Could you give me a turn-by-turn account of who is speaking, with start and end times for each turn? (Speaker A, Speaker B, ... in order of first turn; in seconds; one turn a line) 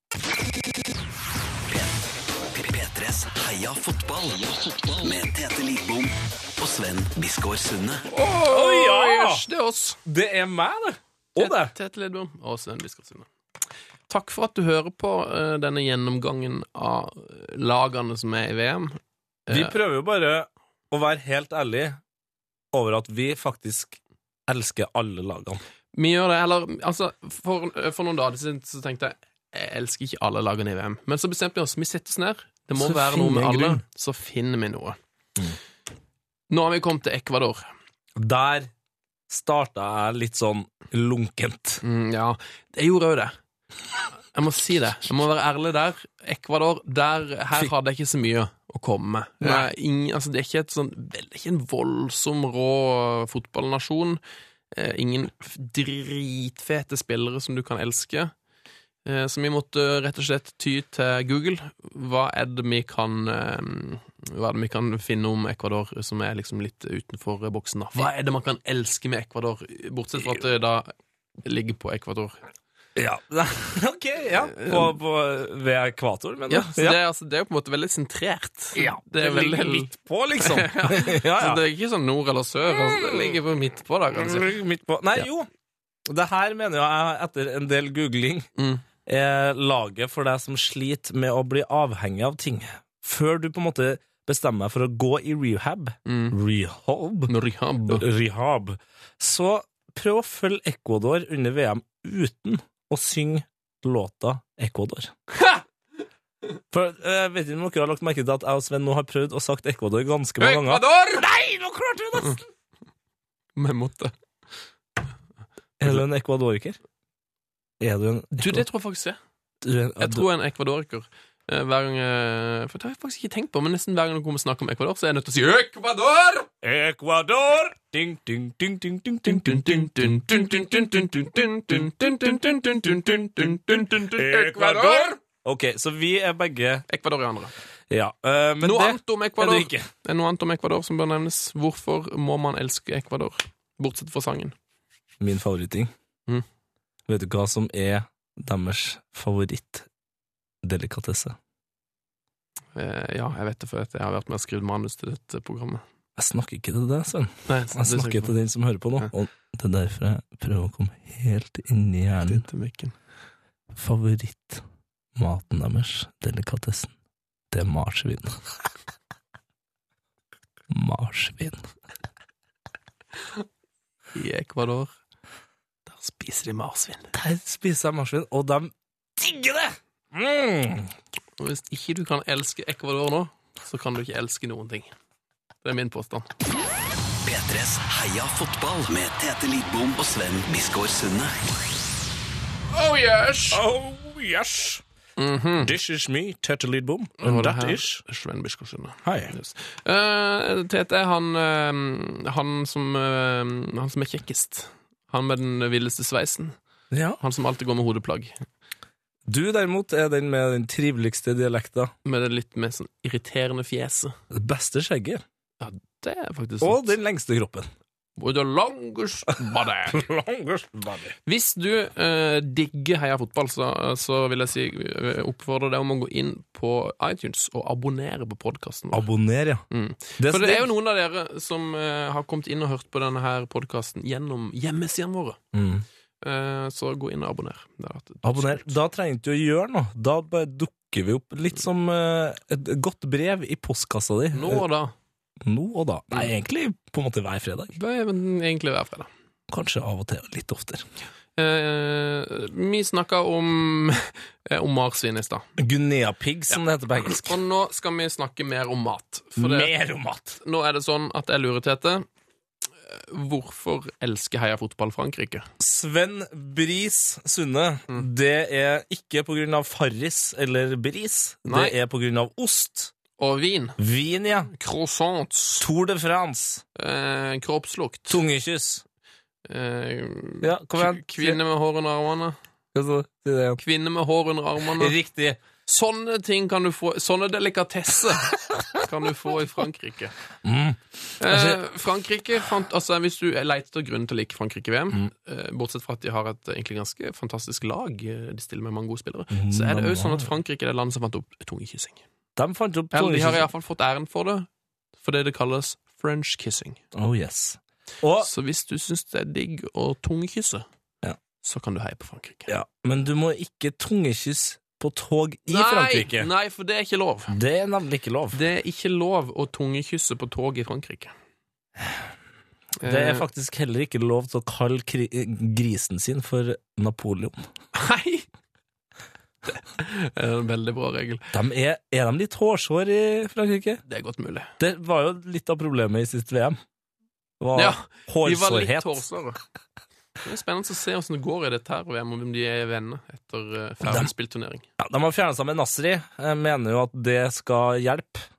Speaker A: 1.7-8.1
Speaker B: 8.1-10.0
Speaker C: 8.3-9.4
Speaker C: 10.1-11.7
Speaker B: 11.4-13.3
Speaker B: 14.1-19.8
Speaker C: 19.5-22.0
Speaker C: 22.7-25.6
Speaker B: 25.9-35.0
Speaker C: 32.8-33.8
Speaker B: 36.5-37.7
Speaker C: 38.2-38.7
Speaker C: 39.3-41.8
Speaker B: 41.8-43.4
Speaker B: 44.3-54.2
Speaker C: 49.4-49.7
Speaker B: 54.7-58.3
Speaker B: 59.1-70.9
Speaker B: 71.4-72.4
Speaker C: 73.0-77.0
Speaker B: 74.5-74.9
Speaker B: 76.5-84.5
Speaker C: 78.8-81.6
Speaker C: 82.7-83.3
Speaker C: 84.2-85.5
Speaker C: 86.1-88.5
Speaker B: 88.6-88.8
Speaker C: 89.1-97.3
Speaker B: 96.1-96.4
Speaker B: 97.3-98.0
Speaker C: 97.9-105.1
Speaker B: 105.3-105.6
Speaker C: 106.7-112.4
Speaker B: 110.4-111.2
Speaker B: 113.6-114.1
Speaker C: 115.8-116.8
Speaker C: 117.8-118.7
Speaker B: 118.3-119.2
Speaker C: 119.6-120.3
Speaker B: 120.0-126.5
Speaker C: 126.6-136.8
Speaker B: 129.3-135.2
Speaker B: 136.9-137.6
Speaker C: 137.9-139.9
Speaker B: 138.6-144.6
Speaker C: 145.2-145.9
Speaker C: 147.1-149.9
Speaker C: 150.6-151.4
Speaker B: 152.8-155.8
Speaker C: 156.2-162.4
Speaker B: 157.5-158.4
Speaker B: 162.3-162.9
Speaker C: 163.7-164.6
Speaker C: 165.2-166.9
Speaker C: 167.5-168.4
Speaker C: 170.7-171.7
Speaker B: 174.1-174.9
Speaker B: 175.9-177.1
Speaker C: 177.1-180.9
Speaker B: 181.4-184.9
Speaker B: 185.6-186.3
Speaker A: 187.2-191.4
Speaker B: 192.7-193.6
Speaker C: 193.5-194.8
Speaker B: 195.2-195.7
Speaker C: 195.6-198.0
Speaker B: 197.2-206.6
Speaker C: 199.0-199.3
Speaker C: 206.9-207.2
Speaker B: 207.2-208.3
Speaker C: 209.3-211.9
Speaker B: 212.1-214.2
Speaker C: 214.3-215.2
Speaker B: 215.6-216.9
Speaker C: 216.6-217.7
Speaker B: 218.2-220.0
Speaker C: 219.9-221.2
Speaker B: 221.3-229.1
Speaker C: 228.9-229.6
Speaker B: 229.7-235.4
Speaker C: 230.2-230.7
Speaker C: 235.5-235.8
Speaker B: 236.2-238.8
Speaker C: 238.2-244.6
Speaker B: 244.3-244.9
Speaker C: 245.4-247.7
Speaker B: 247.8-249.1
Speaker C: 249.5-250.8
Speaker B: 251.4-255.5
Speaker C: 255.6-257.4
Speaker B: 256.5-259.7
Speaker C: 259.4-260.4
Speaker B: 260.4-262.1
Speaker B: 262.9-265.5
Speaker C: 265.6-272.9
Speaker B: 271.4-271.8
Speaker B: 273.2-273.8
Speaker C: 273.8-274.5
Speaker B: 274.5-275.6
Speaker C: 275.6-276.6
Speaker B: 276.8-278.2
Speaker C: 278.1-278.8
Speaker B: 279.5-282.4
Speaker C: 280.4-281.4
Speaker C: 282.7-283.6
Speaker B: 283.6-284.9
Speaker C: 284.7-285.4
Speaker B: 285.6-290.1
Speaker C: 290.4-291.6
Speaker B: 291.2-302.0
Speaker C: 299.3-300.3
Speaker C: 302.4-303.5
Speaker B: 302.9-306.8
Speaker C: 306.9-308.3
Speaker B: 308.2-310.6
Speaker B: 311.4-312.5
Speaker C: 312.5-316.3
Speaker B: 315.5-317.4
Speaker C: 317.3-318.4
Speaker B: 318.3-321.1
Speaker B: 322.8-323.2
Speaker C: 322.8-327.4
Speaker B: 327.7-328.3
Speaker B: 329.4-331.3
Speaker C: 331.3-333.8
Speaker B: 333.9-334.5
Speaker C: 334.6-336.6
Speaker C: 337.4-339.0
Speaker B: 337.6-339.4
Speaker B: 340.2-344.7
Speaker C: 343.8-344.1
Speaker C: 344.8-348.2